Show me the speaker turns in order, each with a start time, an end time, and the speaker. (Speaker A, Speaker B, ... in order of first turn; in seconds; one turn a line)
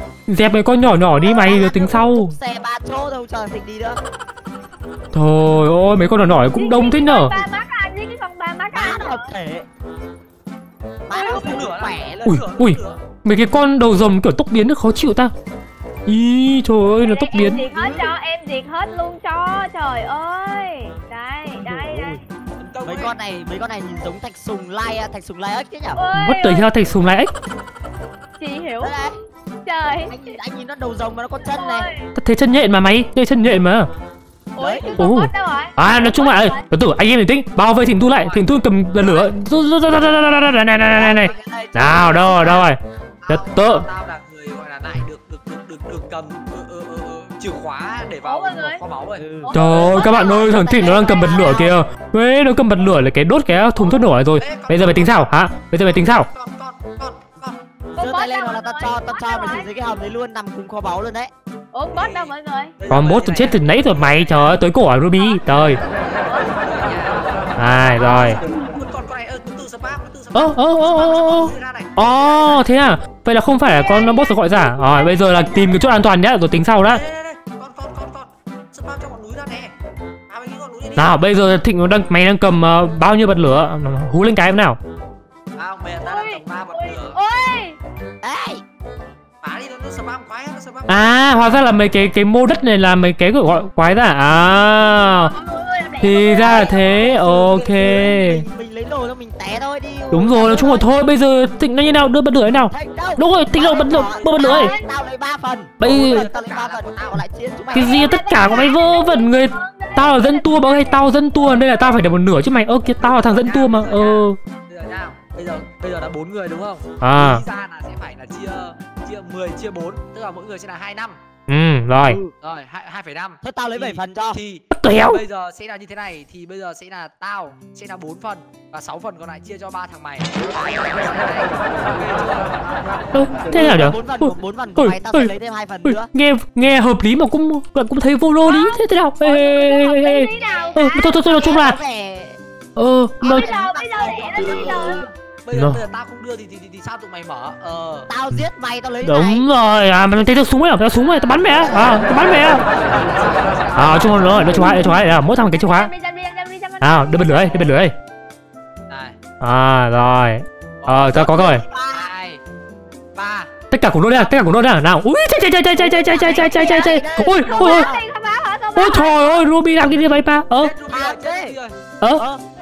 Speaker A: 0.3-2.3
Speaker B: 1.2-4.0
Speaker A: 5.1-7.3
Speaker C: 6.5-9.3
Speaker B: 8.7-9.7
Speaker B: 11.1-12.3
Speaker D: 11.1-13.1
Speaker A: 12.3-15.3
Speaker A: 16.1-17.6
Speaker C: 17.0-22.2
Speaker B: 17.5-18.1
Speaker B: 21.6-22.2
Speaker D: 22.6-23.2
Speaker B: 22.8-26.0
Speaker C: 26.0-26.7
Speaker A: 26.1-27.3
Speaker C: 28.4-28.9
Speaker B: 28.8-29.1
Speaker C: 29.6-30.3
Speaker B: 29.9-31.9
Speaker C: 31.5-32.1
Speaker A: 32.2-33.9
Speaker C: 34.5-36.7
Speaker B: 34.6-35.0
Speaker A: 35.0-43.9
Speaker D: 38.1-38.5
Speaker B: 40.9-42.7
Speaker D: 43.2-49.3
Speaker C: 48.2-48.8
Speaker B: 49.2-51.8
Speaker C: 49.4-51.6
Speaker A: 49.5-56.3
Speaker D: 53.8-57.6
Speaker C: 58.0-59.7
Speaker B: 58.0-61.3
Speaker C: 61.7-62.8
Speaker D: 61.9-64.6
Speaker A: 62.9-65.8
Speaker C: 65.2-65.5
Speaker D: 65.8-72.7
Speaker C: 66.1-66.5
Speaker A: 67.6-68.4
Speaker A: 70.3-77.0
Speaker C: 73.6-75.8
Speaker D: 76.8-79.7
Speaker D: 80.3-81.3
Speaker A: 81.0-84.8
Speaker D: 85.5-87.2
Speaker C: 86.0-87.8
Speaker B: 88.2-88.6
Speaker D: 89.4-91.1
Speaker A: 90.9-95.3
Speaker C: 95.2-96.8
Speaker A: 96.0-98.4
Speaker B: 96.4-100.9
Speaker A: 100.1-104.7
Speaker B: 102.7-108.0
Speaker C: 104.4-104.9
Speaker A: 105.8-106.3
Speaker D: 105.8-107.2
Speaker C: 107.7-111.1
Speaker A: 107.7-114.4
Speaker D: 113.0-121.2
Speaker A: 117.0-117.4
Speaker A: 121.5-122.2
Speaker D: 122.3-133.4
Speaker B: 123.4-124.4
Speaker A: 124.7-125.2
Speaker A: 133.1-135.3
Speaker B: 133.5-136.1
Speaker A: 135.8-141.8
Speaker C: 138.4-141.2
Speaker B: 140.4-142.4
Speaker A: 142.8-143.5
Speaker B: 143.2-145.1
Speaker C: 143.2-145.1
Speaker D: 145.4-148.1
Speaker A: 145.5-145.8
Speaker B: 148.1-149.5
Speaker A: 149.0-152.6
Speaker B: 151.7-152.6
Speaker D: 152.5-154.7
Speaker A: 153.8-155.9
Speaker C: 155.5-157.7
Speaker A: 156.8-157.9
Speaker D: 158.9-159.2
Speaker A: 159.4-161.6
Speaker D: 160.8-161.3
Speaker B: 161.1-162.1
Speaker D: 161.9-162.4
Speaker D: 163.2-163.5
Speaker A: 163.7-167.9
Speaker B: 165.9-168.0
Speaker C: 166.5-169.5
Speaker A: 168.8-170.7
Speaker D: 170.6-171.8
Speaker B: 170.9-171.6